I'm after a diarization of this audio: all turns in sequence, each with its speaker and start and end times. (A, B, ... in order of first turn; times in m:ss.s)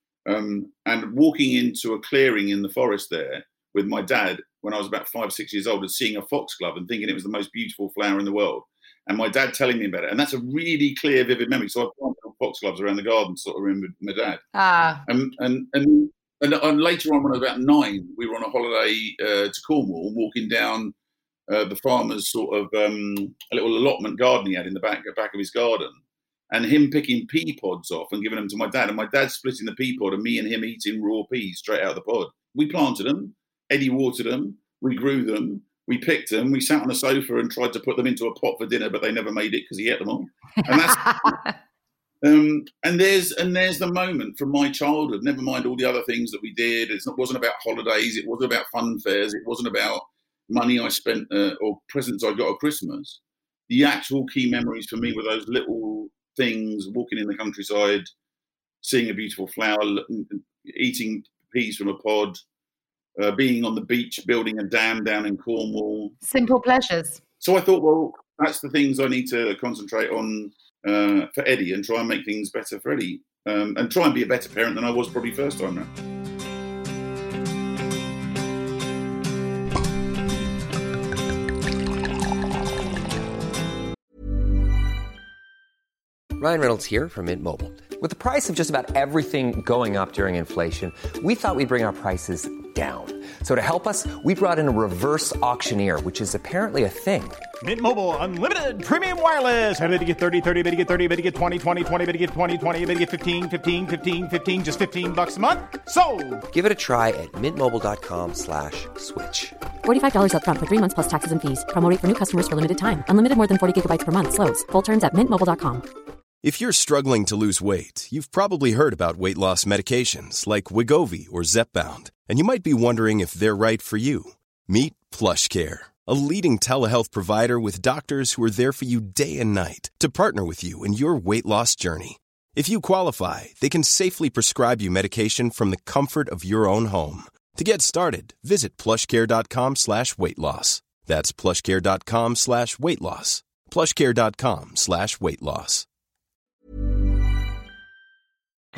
0:00.3-0:14.4 A
0:14.5-0:15.0 B
0:15.0-0:20.9 A
0:21.5-0:26.0 A
0:26.5-0:41.4 A
0:40.6-0:41.5 B
0:42.2-0:58.1 A
0:58.8-1:02.4 A
1:03.2-1:06.1 A
1:06.2-1:07.2 B
1:07.4-1:15.9 A
1:26.4-1:37.4 C
1:37.6-1:46.4 D
1:46.5-1:49.6 C
1:49.8-1:55.8 E
1:56.4-2:25.9 F